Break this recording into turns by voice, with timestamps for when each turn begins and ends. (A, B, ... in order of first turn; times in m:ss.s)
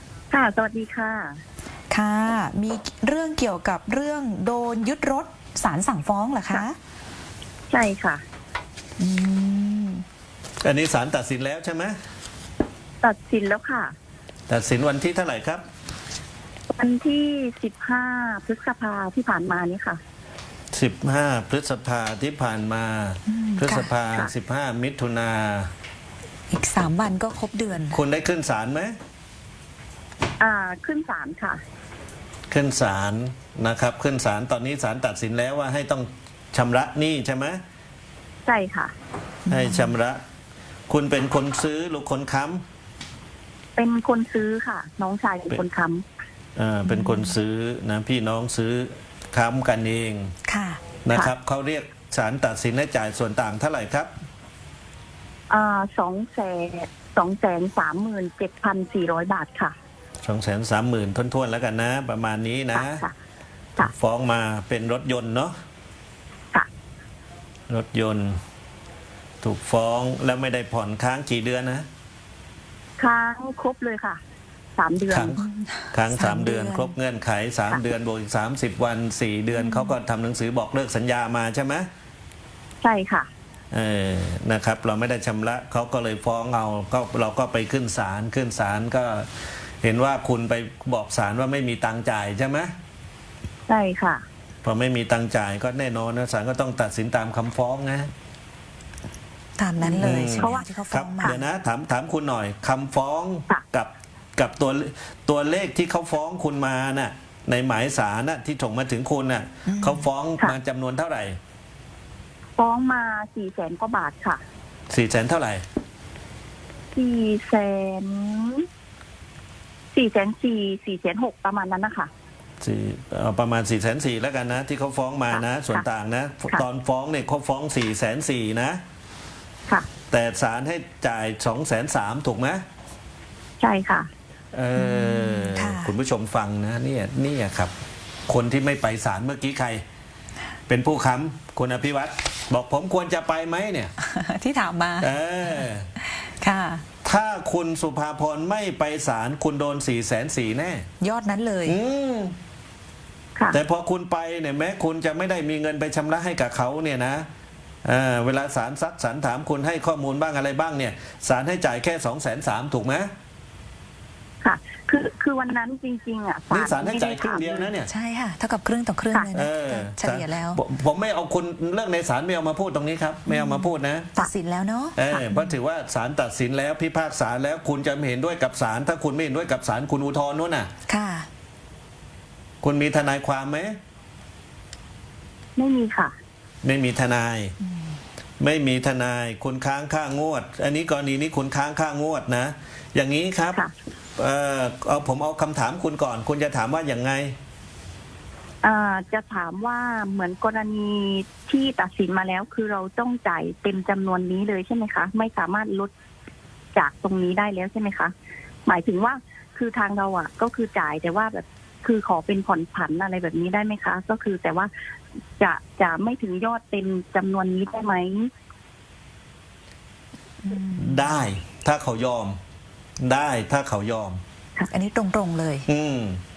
0:00.3-0:01.4 A
0:01.9-0:06.8 B
0:07.7-0:08.2 A
0:09.0-0:10.0 B
0:10.6-0:12.0 C
0:13.0-0:13.9 A
0:14.5-0:15.6 C
0:16.7-0:20.0 A
0:20.7-0:25.7 C
0:23.3-0:23.9 B
0:26.5-0:28.0 B
0:27.9-0:28.9 C
0:30.4-0:31.6 A
0:32.5-0:37.6 C
0:38.4-0:38.9 A
0:39.5-0:39.9 B
0:39.5-0:40.2 C
0:40.9-0:42.6 C
0:43.8-0:46.0 A
0:46.6-0:50.3 C
0:46.9-0:47.3 B
0:50.4-0:50.8 B
0:51.0-0:54.1 C
0:55.5-0:59.7 A
1:00.2-1:03.0 C
1:02.7-1:03.1 A
1:03.8-1:05.5 C
1:07.7-1:08.4 C
1:09.4-1:11.9 C
1:13.0-1:14.2 A
1:14.8-1:15.4 A
1:15.1-1:21.9 C
1:15.4-1:16.9 B
1:19.6-1:20.0 B
1:22.8-1:23.3 A
1:23.7-1:29.3 C
1:29.8-1:32.7 C
1:33.7-1:34.2 A
1:34.6-1:38.1 C
1:39.6-1:41.4 B
1:39.8-1:40.6 A
1:39.9-1:51.4 C
1:49.6-1:50.0 B
1:52.6-1:54.4 A
1:54.9-1:55.6 C
1:56.9-1:58.6 A
1:59.9-2:02.1 A
2:02.6-2:08.8 C
2:05.3-2:05.8 A
2:10.1-2:12.6 C
2:13.6-2:14.1 A
2:14.5-2:17.7 C
2:14.7-2:15.9 B
2:18.3-2:19.8 C
2:20.7-2:23.9 C
2:24.0-2:26.8 B
2:25.0-2:25.9 C
2:27.0-2:30.9 C
2:31.0-2:31.8 B
2:31.6-2:32.4 C
2:33.5-2:37.3 C
2:37.8-2:43.1 C
2:44.4-2:47.7 A
2:46.5-2:47.9 C
2:47.9-2:50.6 B
2:49.3-2:54.1 C
2:53.3-2:55.5 B
2:55.0-3:00.7 C
3:00.9-3:01.3 B
3:02.6-3:03.8 C
3:05.6-3:06.1 A
3:06.6-3:07.6 C
3:08.4-3:13.6 C
3:14.2-3:17.4 C
3:18.6-3:25.9 A
3:26.7-3:28.1 A
3:28.6-3:34.7 A
3:35.4-3:38.3 A
3:40.4-3:41.1 B
3:40.7-3:42.4 C
3:43.0-3:44.2 C
3:44.7-3:45.6 B
3:45.7-3:46.2 C